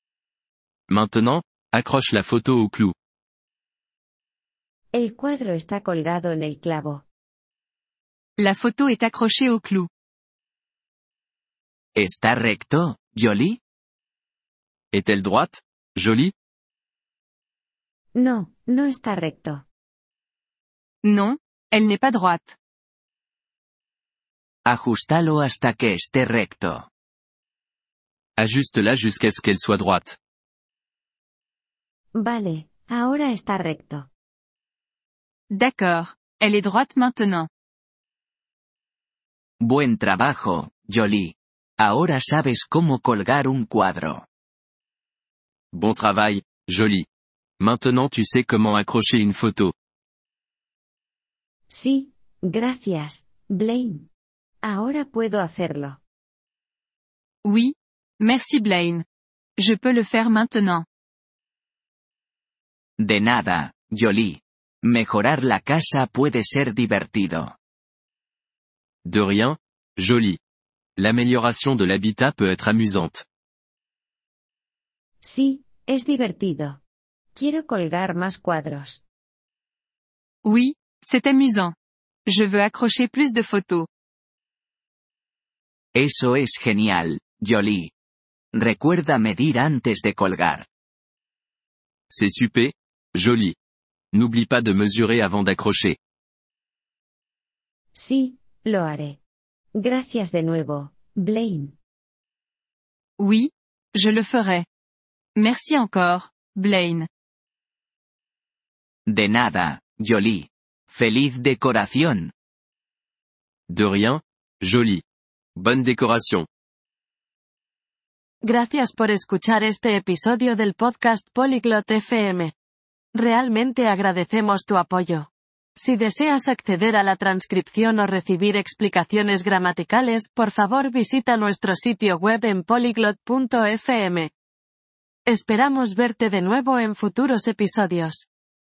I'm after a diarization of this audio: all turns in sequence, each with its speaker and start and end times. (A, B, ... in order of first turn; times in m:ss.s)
0:00.9-0:02.9 A
0:04.9-0:07.0 B
0:08.4-0:09.9 C
0:12.0-0:13.6 D
0:14.9-0:16.3 A
0:18.1-0:19.6 B
0:21.0-0:22.6 C
0:24.6-0:26.9 D
0:28.4-0:30.2 A
0:32.1-0:34.1 B
0:35.5-0:37.5 C
0:39.6-0:44.2 D
0:45.7-0:47.0 A
0:47.6-0:49.7 A
0:51.7-0:54.1 B
0:54.6-0:56.0 B
0:57.4-0:59.0 C
0:59.6-1:00.8 C
1:03.0-1:07.6 D
1:09.0-1:10.4 A
1:11.0-1:13.2 A
1:15.2-1:16.8 B
1:17.3-1:19.0 B
1:20.4-1:21.8 C
1:22.3-1:23.9 C
1:25.9-1:27.9 D
1:28.5-1:30.6 D
1:32.1-1:33.6 A
1:34.1-1:36.0 A
1:37.9-1:39.2 B
1:39.7-1:41.7 B
1:43.2-1:44.6 C
1:45.4-1:47.1 C
1:49.1-1:52.3 D
1:53.7-1:55.0 A
1:55.6-1:56.5 A
1:58.4-2:02.5 E
2:03.1-2:14.3 E
2:15.2-2:18.3 E